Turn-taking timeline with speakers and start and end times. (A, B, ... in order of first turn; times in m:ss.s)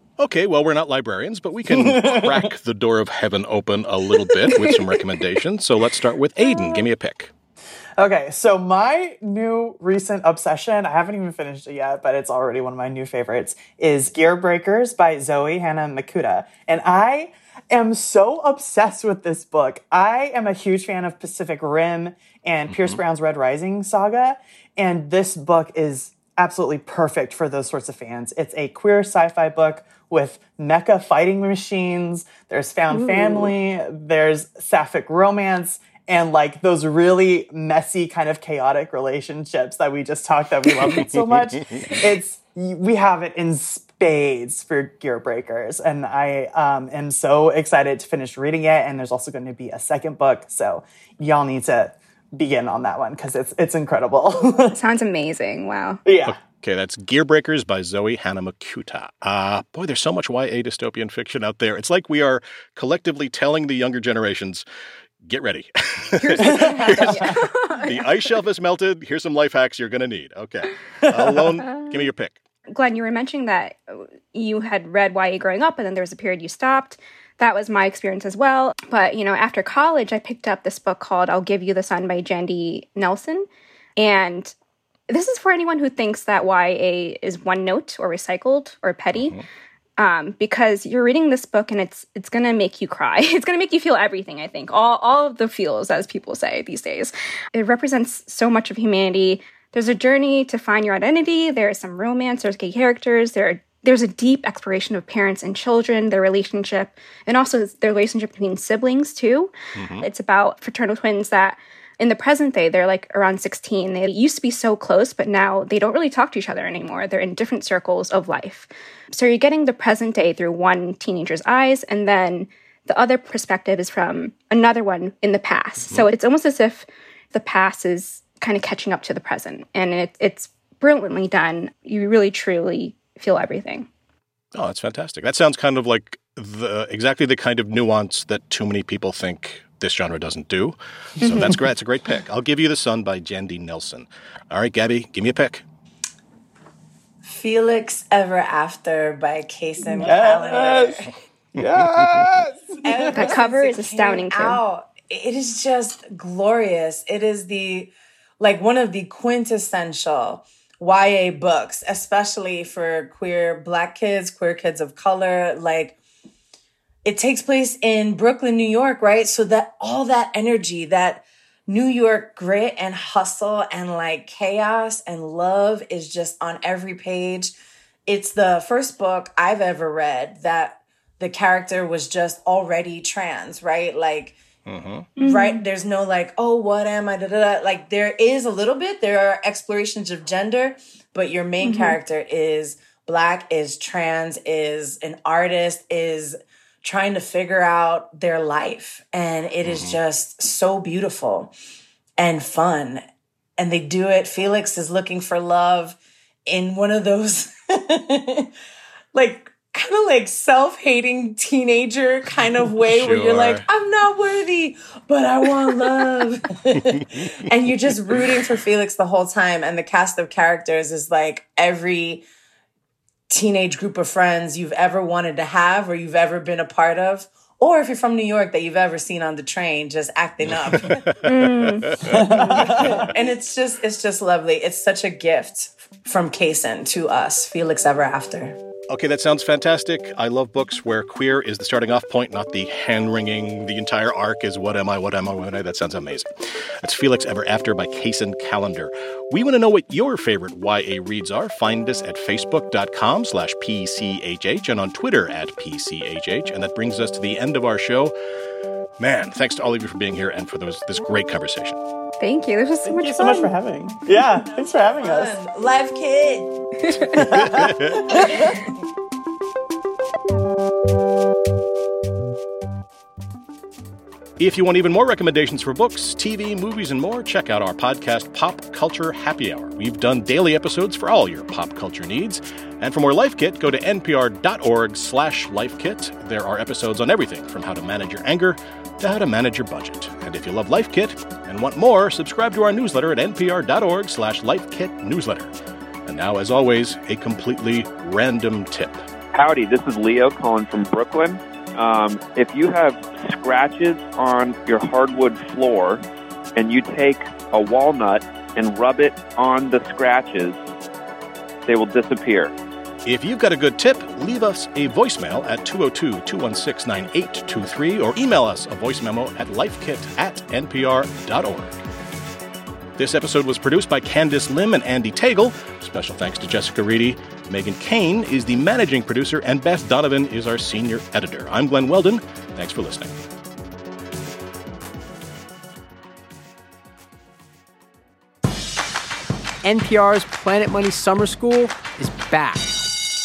0:00.2-0:07.3 A
0:01.7-0:02.5 B
0:08.0-0:54.8 B
0:22.7-0:23.0 A
0:32.9-0:33.5 C
0:54.7-0:56.0 C
0:56.0-0:56.4 B
0:56.2-1:04.6 A
1:05.2-1:12.4 A
1:06.2-1:08.2 C
1:06.4-1:07.4 B
1:11.0-1:11.6 B
1:12.7-1:24.5 C
1:25.1-1:29.3 C
1:29.1-1:29.4 A
1:30.0-2:13.9 C
1:49.7-1:50.1 A
2:14.5-2:25.6 A
2:21.2-2:21.5 C
2:27.2-2:31.1 D
2:30.0-2:33.3 B
2:31.6-2:32.3 A
2:32.8-2:46.0 D
2:33.1-2:34.6 C
2:47.0-2:57.5 D
2:58.1-3:04.4 D
3:04.6-3:05.1 A
3:05.2-3:05.6 C
3:05.2-3:21.5 D
3:11.6-3:12.0 C
3:19.6-3:20.0 A
3:22.2-3:23.0 D
3:23.6-3:28.5 D
3:29.1-3:42.2 D
3:32.8-3:33.6 A
3:36.8-3:37.3 A
3:43.3-3:51.1 D
3:50.4-3:52.2 A
3:51.2-3:52.0 C
3:52.0-3:53.1 B
3:52.4-3:58.6 D
3:58.9-4:06.3 A
4:06.8-4:18.1 A
4:19.0-4:21.8 A
4:22.2-4:23.5 C
4:22.8-4:25.4 B
4:24.1-4:26.5 D
4:26.8-4:27.2 C
4:27.1-4:28.6 B
4:27.3-4:28.0 A
4:28.0-4:28.7 D
4:34.4-4:55.5 A
4:56.0-4:59.0 A
4:59.3-5:06.0 E
5:06.6-5:10.6 E
5:11.6-5:12.5 E
5:13.0-5:21.8 A
5:23.0-5:33.2 A
5:39.6-5:42.8 F